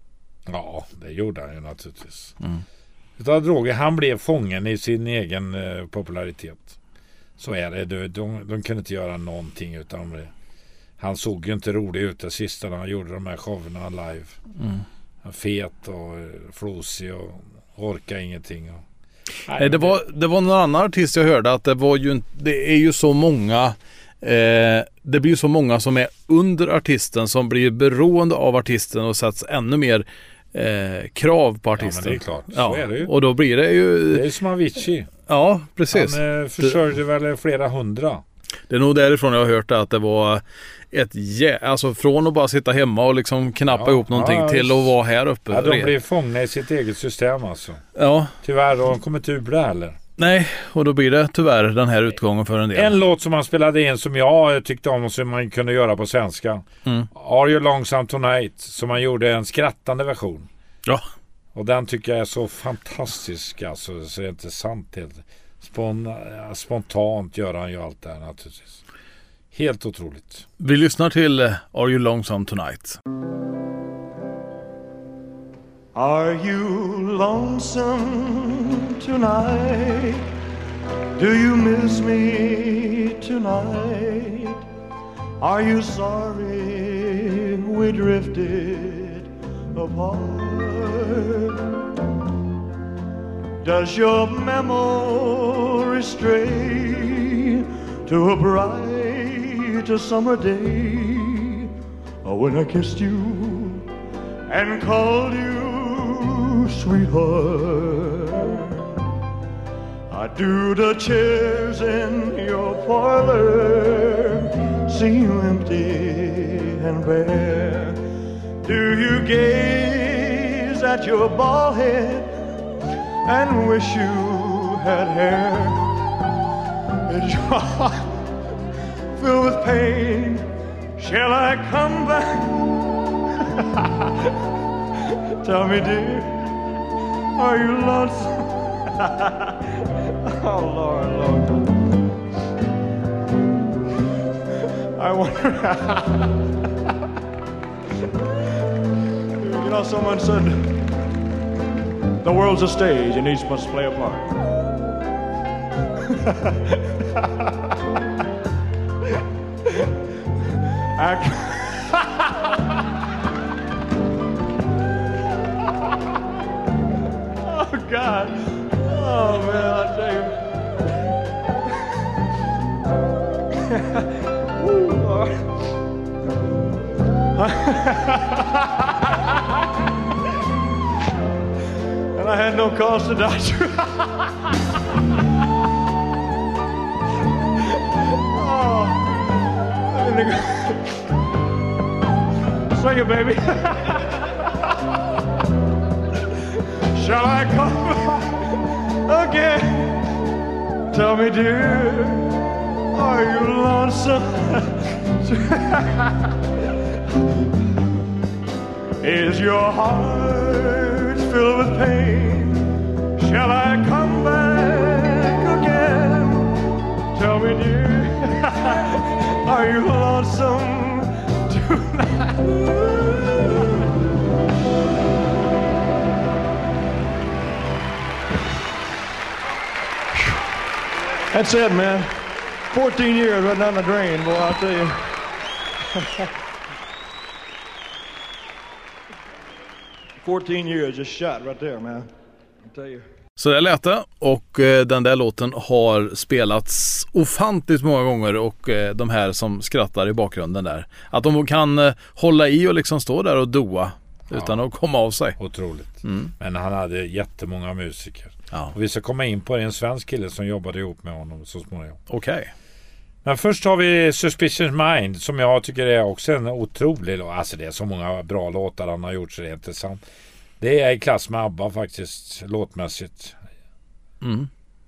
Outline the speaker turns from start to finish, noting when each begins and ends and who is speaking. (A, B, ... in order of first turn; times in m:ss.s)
0:00.5-0:02.4 A
0:03.2-0:06.8 A
0:07.4-0:10.3 A
0:11.0-0:14.4 A
0:15.2-0:18.8 A
0:19.5-0:20.0 A
0:19.5-0:34.2 B
0:31.8-0:33.1 A
0:34.1-0:35.1 A
0:35.3-0:36.8 B
0:35.9-0:38.2 A
0:38.7-0:45.9 B
0:43.7-0:44.9 A
0:45.5-0:47.8 A
0:48.0-0:48.3 B
0:48.4-0:50.0 A
0:50.2-0:52.9 B
0:52.7-1:00.5 A
1:01.5-1:08.8 A
1:09.5-1:10.4 A
1:10.6-1:13.0 B
1:15.9-1:20.2 C
1:21.2-1:24.6 C
1:25.4-1:31.7 C
1:33.6-1:41.7 C
1:42.2-1:43.9 C
1:44.5-1:49.1 C
1:50.1-1:58.0 C
1:58.6-2:02.3 C
2:03.2-2:05.8 C
2:07.1-2:08.1 C
2:09.2-2:10.4 C
2:11.0-2:12.6 C
2:13.4-2:14.3 C
2:15.1-2:16.5 C
2:17.4-2:19.6 C
2:20.2-2:21.7 C
2:25.0-2:26.3 C
2:29.4-2:30.7 C
2:32.2-2:34.3 C
2:36.1-2:37.2 C
2:41.0-2:42.3 C
2:47.4-2:50.4 C
2:53.7-2:54.0 C
2:54.6-2:55.4 C
2:57.4-2:58.7 C
3:02.1-3:04.3 C
3:08.2-3:09.0 C
3:09.9-3:10.9 C
3:12.7-3:14.3 C
3:16.9-3:20.0 C
3:20.9-3:26.3 C
3:29.0-3:36.6 C
3:37.1-3:43.9 C
3:51.3-3:55.1 C
3:56.0-3:56.2 C
4:00.2-4:02.1 C
4:02.6-4:03.0 C
4:03.4-4:15.4 B
4:14.3-4:14.6 A
4:15.4-4:22.0 A
4:16.0-4:16.3 B
4:22.1-4:22.5 B
4:23.2-4:30.0 A
4:30.6-4:33.4 A
4:34.2-4:34.5 B